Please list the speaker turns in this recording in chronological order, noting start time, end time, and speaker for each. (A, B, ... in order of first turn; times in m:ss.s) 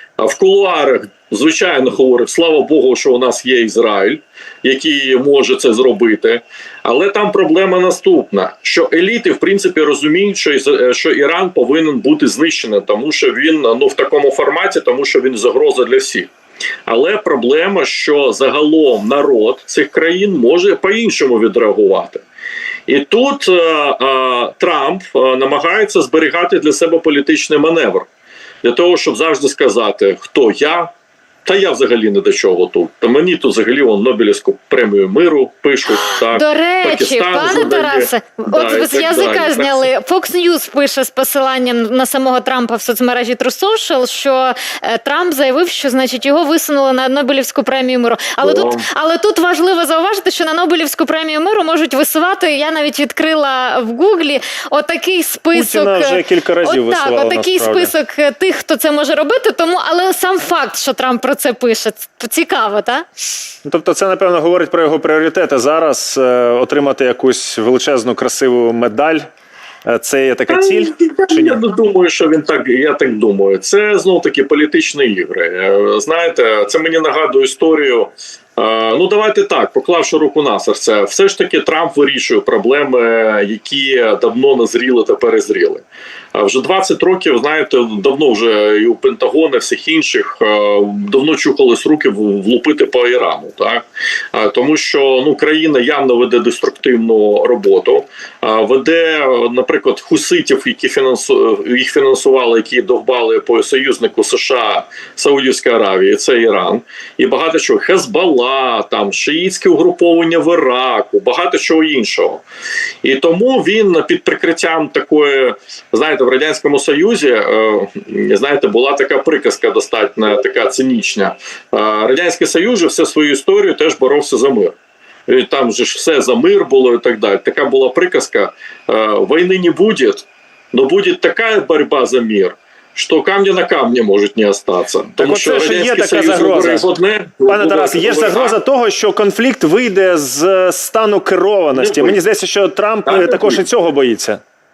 0:00.2-0:16.3 A
0:16.9-0:22.2 A
0:22.9-0:28.1 A
0:28.6-0:30.9 A
0:31.4-0:39.9 A
0:36.1-1:03.1 B
0:48.4-0:48.8 A
0:55.5-0:57.9 C
1:03.6-1:09.3 C
1:09.9-1:11.6 C
1:10.5-1:25.8 A
1:26.3-1:52.4 A
1:53.0-2:04.8 A
2:05.3-2:18.6 A
2:15.2-2:16.9 C
2:17.5-2:24.4 C
2:21.7-2:22.2 A
2:23.0-2:23.6 A